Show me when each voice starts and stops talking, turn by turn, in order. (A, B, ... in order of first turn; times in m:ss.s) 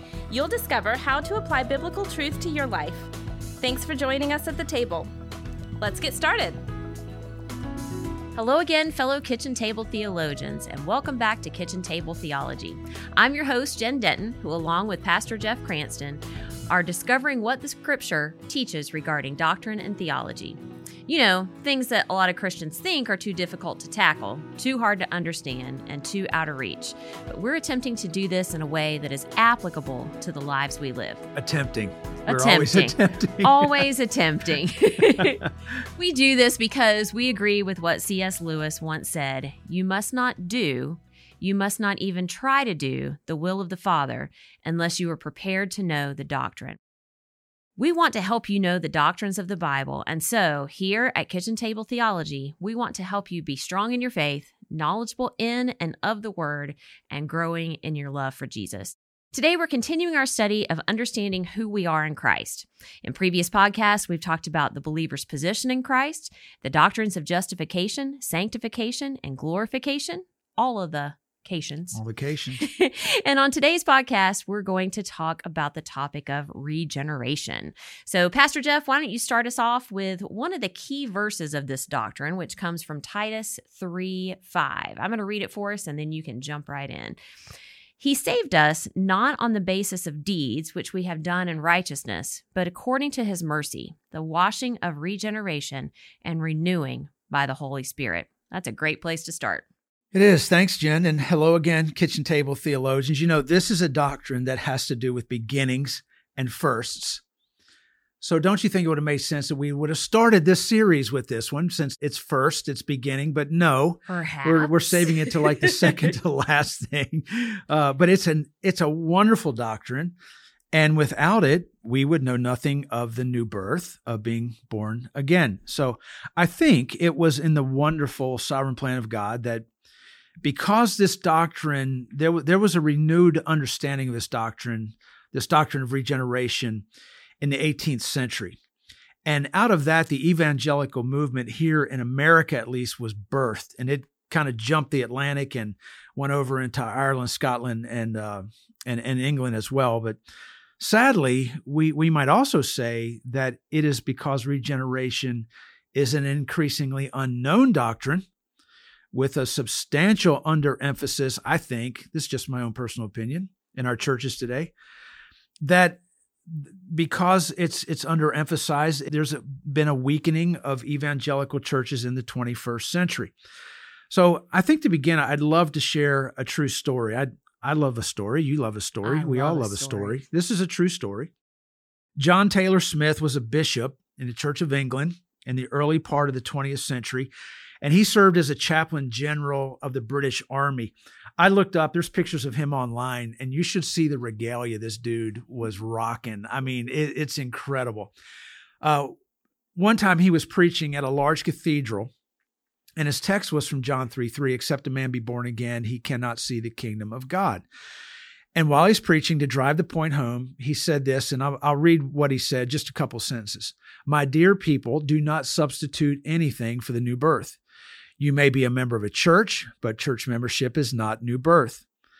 0:00.3-0:05.1 A
0:05.8-0:06.6 A
0:08.3-0:31.2 B
0:31.3-0:33.9 C
0:32.3-0:35.4 B
0:35.0-0:35.4 C
0:36.0-0:46.8 B
0:47.8-1:12.0 B
1:11.9-1:12.6 C
1:12.6-1:27.2 B
1:28.0-1:39.6 B
1:40.1-1:47.2 C
1:48.2-2:00.1 C
1:54.1-1:56.0 B
2:00.7-2:09.7 C
2:10.4-2:16.8 C
2:17.4-2:18.6 C
2:19.2-2:30.2 C
2:30.8-2:38.2 C
2:39.1-2:44.7 C
2:45.6-2:53.3 C
2:54.1-3:01.3 C
2:59.0-3:00.2 B
3:02.2-3:07.3 C
3:07.8-3:18.1 C
3:18.8-3:19.1 C
3:19.7-3:22.1 C
3:23.0-3:27.6 C
3:28.5-3:37.6 C
3:38.2-3:41.8 C